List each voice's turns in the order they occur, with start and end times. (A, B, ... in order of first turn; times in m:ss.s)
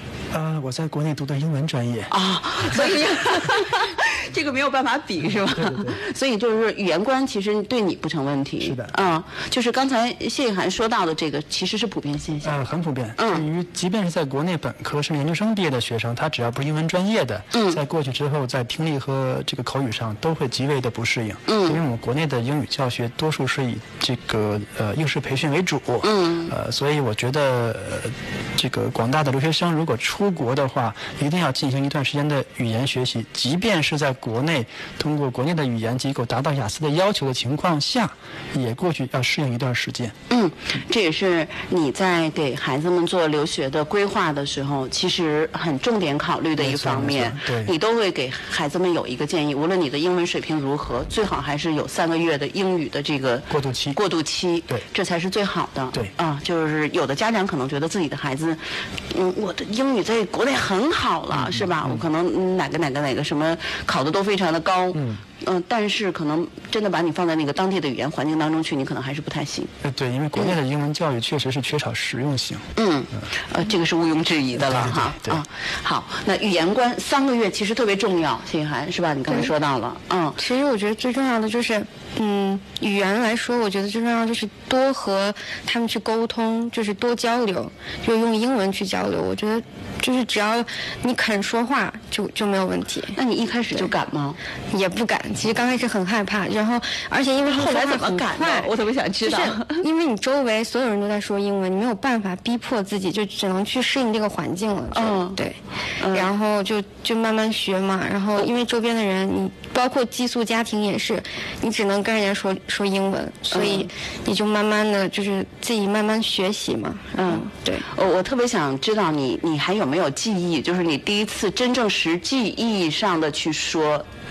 0:00.3-0:02.1 A
0:02.1-0:12.6 B
0:02.7-0:03.0 A
0:05.5-0:06.0 A
0:08.6-0:08.9 A
0:12.4-0:40.2 A
0:13.2-0:13.5 B
0:17.5-0:17.8 B
0:21.5-0:21.8 B
0:26.0-0:26.5 B
0:40.3-0:58.6 B
0:46.6-0:47.7 A
0:53.5-0:54.0 A
0:59.1-1:09.7 B
1:01.3-1:02.0 A
1:04.9-1:05.2 A
1:09.8-1:12.7 A
1:12.8-1:20.4 B
1:14.6-1:15.4 A
1:20.4-1:33.2 C
1:33.2-1:34.4 B
1:34.7-1:38.7 C
1:37.5-1:39.8 B
1:39.2-1:45.6 C
1:44.9-1:45.4 B
1:46.0-1:46.3 B
1:46.1-1:57.9 C
1:53.5-1:53.9 B
1:57.2-2:04.1 B